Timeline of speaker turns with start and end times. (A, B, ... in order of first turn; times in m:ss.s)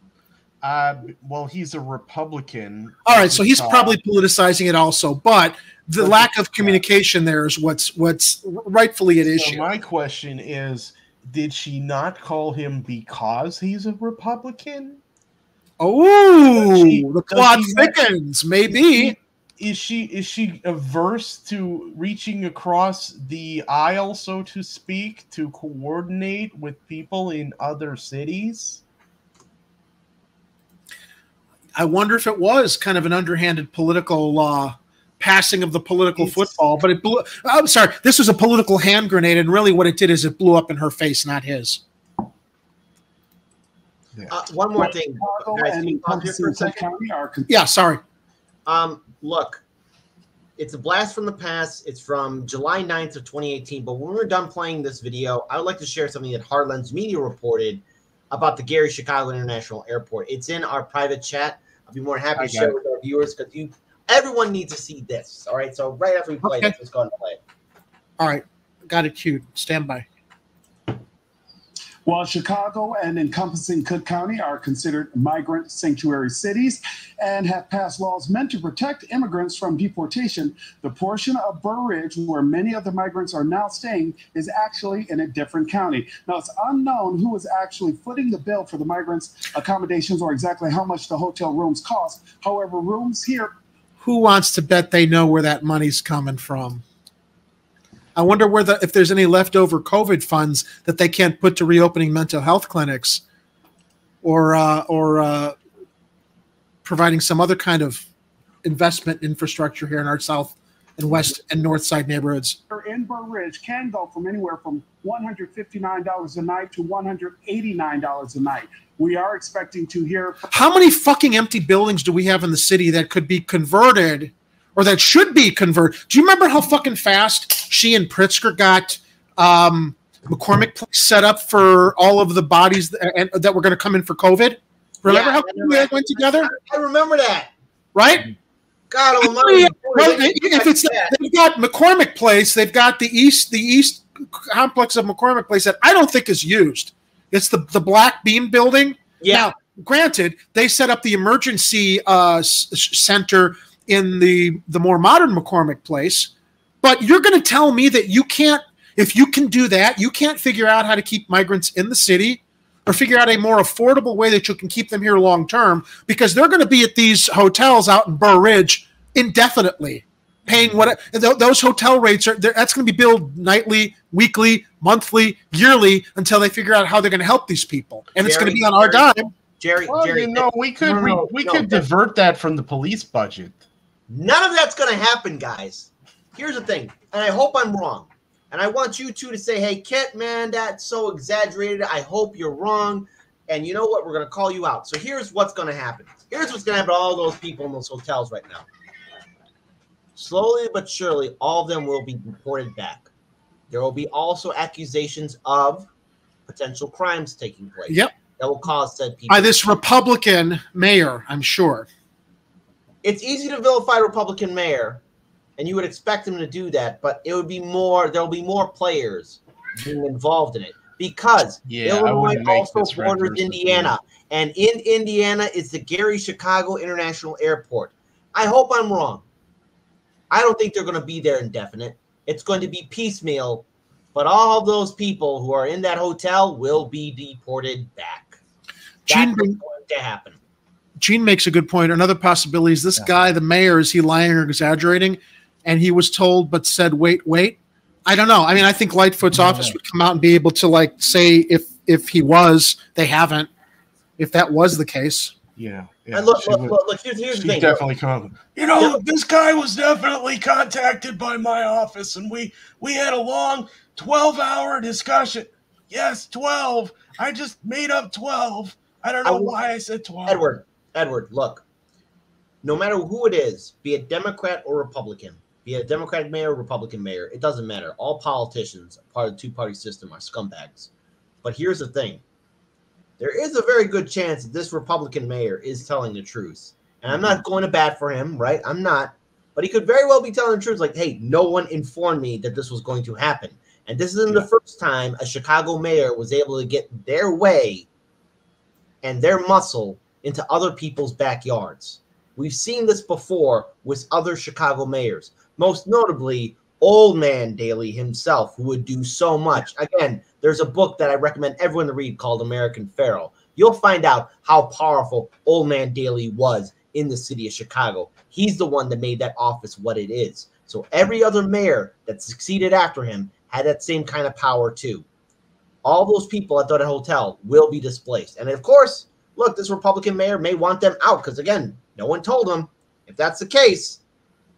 0:00.6-0:04.0 A
0:03.1-0:09.7 B
0:06.0-0:06.8 A
0:09.3-0:15.0 A
0:15.8-0:19.2 B
0:16.6-0:18.0 A
0:18.7-0:28.8 A
0:31.8-0:41.8 B
0:44.3-0:46.8 C
0:44.8-0:47.5 D
0:47.5-0:48.0 B
0:48.7-0:49.6 C
0:50.6-1:07.4 C
1:02.4-1:02.7 A
1:06.4-1:06.7 B
1:08.2-1:10.1 B
1:12.1-1:33.5 D
1:34.0-1:36.8 B
1:38.2-1:43.2 B
1:44.2-1:45.6 B
1:46.8-1:48.0 B
1:48.6-1:52.6 B
1:52.7-2:00.5 D
2:00.5-2:16.5 B
2:15.0-2:17.5 C
2:18.0-2:18.3 B
2:18.9-2:21.2 C
2:19.2-2:36.3 B
2:29.2-2:29.5 C
2:36.8-2:59.3 B
2:50.5-2:50.9 A
2:58.2-3:01.8 C
2:59.9-3:03.6 A
3:04.1-3:18.6 C
3:20.2-3:23.1 C
3:23.7-3:25.9 C
3:26.5-3:29.7 C
3:29.3-3:31.9 B
3:33.0-3:35.0 C
3:35.6-3:49.2 C
3:41.6-3:43.9 A
3:50.3-3:58.4 C
3:59.1-4:00.4 C
3:59.1-3:59.6 B
4:01.0-4:13.5 B
4:14.2-4:15.4 B
4:15.6-4:16.8 A
4:16.1-4:17.8 C
4:17.3-4:30.5 A
4:18.8-4:19.0 C
4:29.2-4:29.5 C
4:30.3-4:31.6 C
4:32.6-4:40.9 C
4:41.4-4:42.2 C
4:43.2-4:57.9 C
4:59.0-5:25.0 C
5:25.8-5:34.0 C